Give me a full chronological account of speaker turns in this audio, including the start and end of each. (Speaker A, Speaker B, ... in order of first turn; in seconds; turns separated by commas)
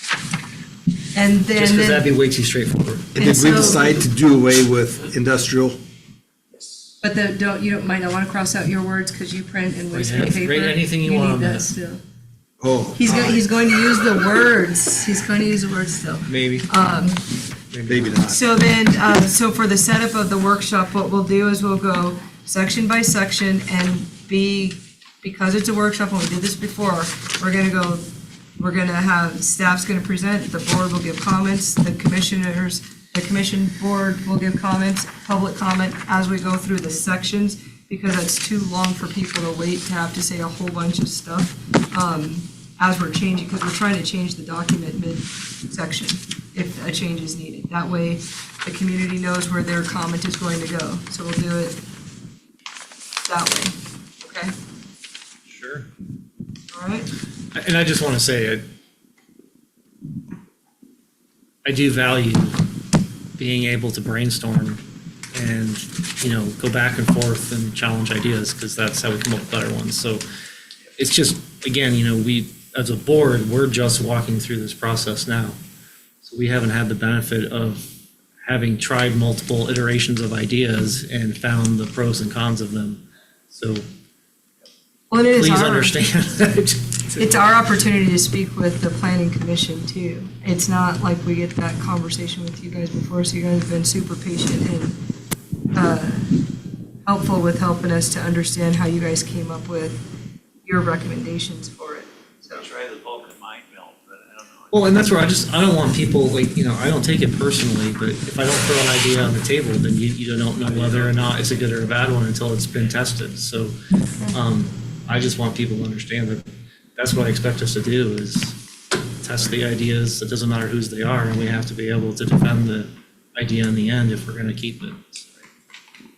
Speaker A: 1.1-2.1, Speaker B: 1.5-3.1, Speaker C: 3.1-5.8, Speaker A: 3.2-4.0, Speaker A: 7.0-12.0, Speaker B: 9.9-11.7, Speaker C: 12.6-13.2, Speaker A: 12.9-17.2, Speaker B: 16.3-16.7, Speaker B: 17.7-18.2, Speaker C: 17.9-18.4, Speaker A: 18.2-28.0, Speaker A: 28.6-51.8, Speaker A: 53.2-54.5, Speaker B: 55.5-55.9, Speaker A: 56.7-57.1, Speaker B: 57.5-58.6, Speaker B: 61.6-62.6, Speaker B: 63.4-64.8, Speaker B: 65.3-70.2, Speaker B: 71.0-75.6, Speaker B: 76.2-77.9, Speaker B: 78.4-83.8, Speaker A: 85.1-86.0, Speaker B: 85.3-87.4, Speaker A: 87.2-95.0, Speaker A: 95.7-96.4, Speaker A: 97.0-100.0, Speaker A: 100.6-102.7, Speaker D: 102.5-105.1, Speaker B: 104.7-113.8, Speaker D: 110.6-111.8, Speaker B: 114.3-118.6, Speaker B: 119.2-125.4